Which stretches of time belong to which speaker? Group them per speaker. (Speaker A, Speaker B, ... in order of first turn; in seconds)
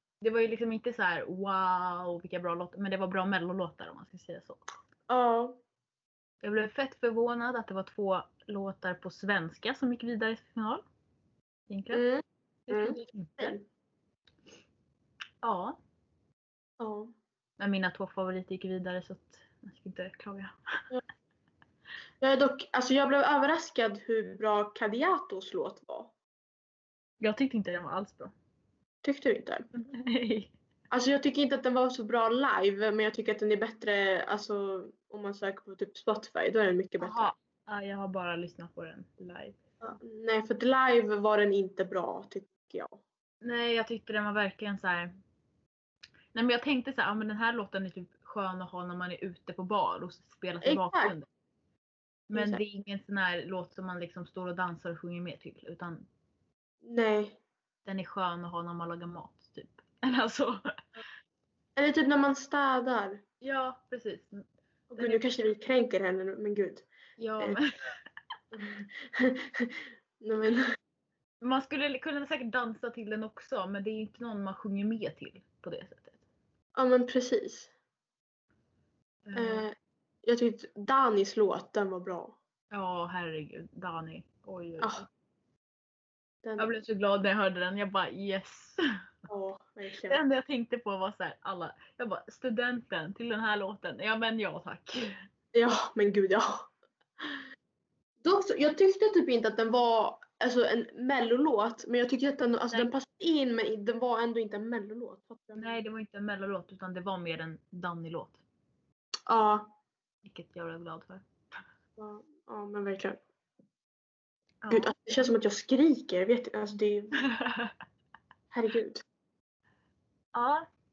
Speaker A: 0.2-4.6, 6.4-10.8, 11.7-12.0, 12.7-13.6, 15.4-15.8, 17.6-20.6, 27.2-28.3, 29.7-30.5, 37.0-39.6, 43.4-45.2, 46.3-51.3, 52.3-56.1, 57.9-60.6, 63.4-65.3, 67.2-67.7, 71.4-76.2, 79.3-79.6, 82.7-85.1, 86.6-88.8, 90.1-95.1, 105.6-108.4, 110.2-111.2, 114.6-114.9, 117.2-117.7, 120.3-120.7
Speaker B: 5.1-5.6, 11.9-13.7, 16.8-17.1, 22.2-26.1, 29.0-29.7, 30.9-37.3, 39.9-43.0, 50.6-51.1, 52.3-52.6, 56.8-57.4, 61.8-63.2, 65.0-66.9, 68.5-70.6, 76.8-77.7, 79.3-82.4, 84.8-85.1, 86.4-86.7, 89.3-90.2, 95.5-96.7, 98.2-105.8, 109.3-109.7, 112.0-113.2, 114.7-117.2, 118.5-119.0